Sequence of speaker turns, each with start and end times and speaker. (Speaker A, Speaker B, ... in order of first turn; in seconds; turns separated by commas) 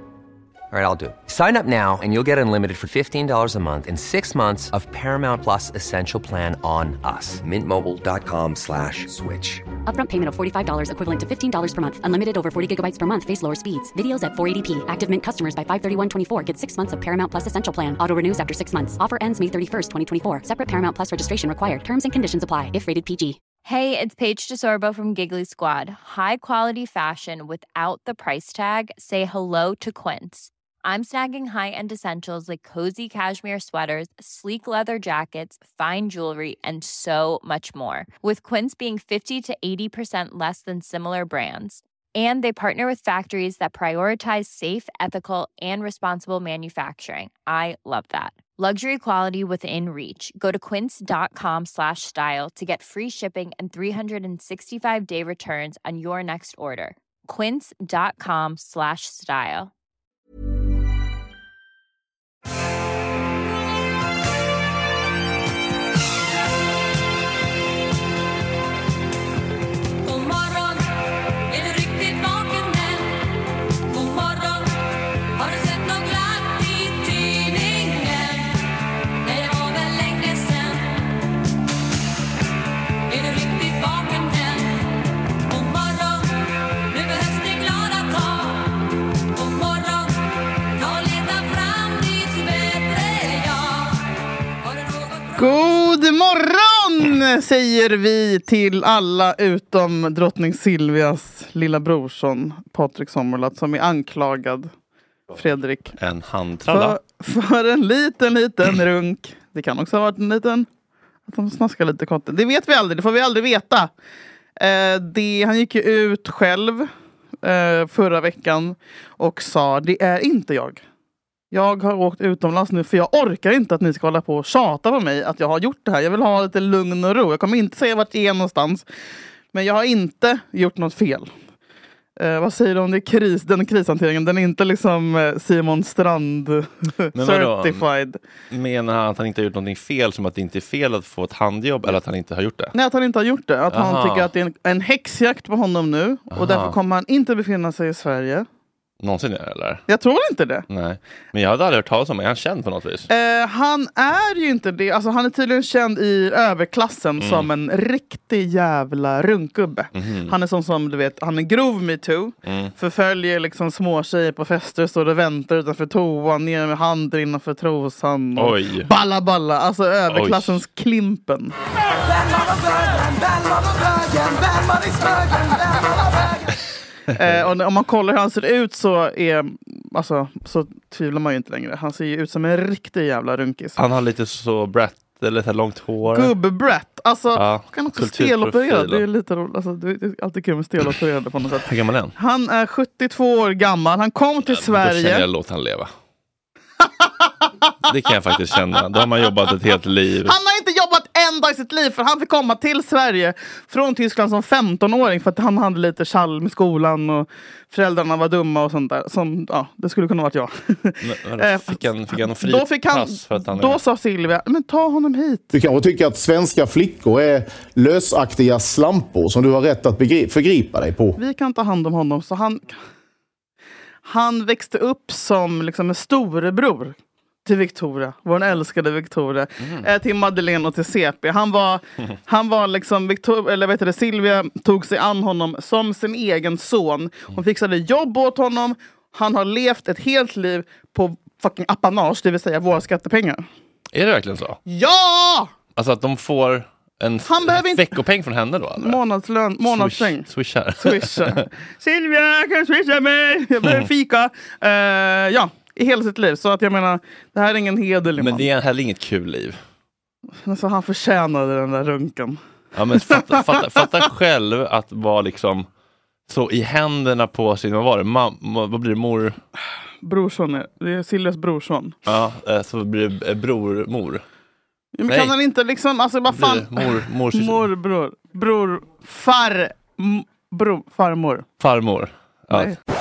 Speaker A: 0.7-9.7, Speaker B: 9.9-23.4, Speaker C: 23.6-59.7, Speaker D: 70.0-70.8, Speaker D: 71.5-73.0, Speaker D: 73.9-74.5, Speaker D: 75.4-78.4, Speaker D: 79.3-80.8, Speaker D: 83.1-84.7, Speaker D: 85.5-86.2, Speaker D: 86.9-88.5, Speaker D: 89.3-90.1, Speaker D: 90.8-93.8, Speaker D: 94.7-95.3, Speaker E: 95.3-104.7, Speaker E: 105.3-105.9, Speaker F: 106.0-107.0, Speaker E: 106.7-110.7, Speaker E: 111.3-113.9, Speaker E: 114.6-116.9, Speaker E: 117.4-120.8, Speaker E: 121.5-128.8, Speaker E: 129.5-131.3, Speaker E: 132.2-138.2, Speaker F: 137.2-137.8, Speaker F: 138.5-142.7, Speaker E: 142.7-148.5, Speaker F: 143.7-144.3, Speaker F: 146.3-146.8, Speaker F: 149.0-149.9, Speaker E: 149.9-150.7, Speaker F: 150.7-153.1, Speaker E: 153.1-171.5, Speaker F: 157.2-157.5, Speaker F: 159.9-160.3, Speaker F: 162.4-162.7, Speaker F: 168.4-168.9, Speaker F: 170.1-170.6, Speaker E: 177.2-183.8, Speaker F: 183.8-186.3, Speaker E: 186.1-195.3, Speaker F: 187.3-189.1, Speaker F: 191.6-192.1, Speaker F: 194.5-195.9, Speaker F: 197.9-200.3, Speaker E: 200.3-215.5, Speaker F: 211.0-213.8, Speaker G: 215.5-221.2, Speaker E: 221.2-222.8, Speaker E: 224.1-243.4, Speaker F: 243.9-244.6, Speaker E: 244.7-245.5, Speaker F: 245.8-249.0, Speaker E: 247.3-247.8, Speaker E: 248.8-258.5, Speaker F: 249.6-251.4, Speaker F: 258.2-259.6, Speaker E: 260.4-262.4, Speaker F: 262.8-265.7, Speaker E: 263.1-263.6, Speaker F: 266.3-269.4, Speaker E: 270.0-271.9, Speaker F: 272.1-274.2, Speaker E: 274.9-281.5, Speaker F: 275.1-275.3, Speaker F: 276.3-277.7, Speaker F: 281.6-282.8, Speaker E: 282.5-282.8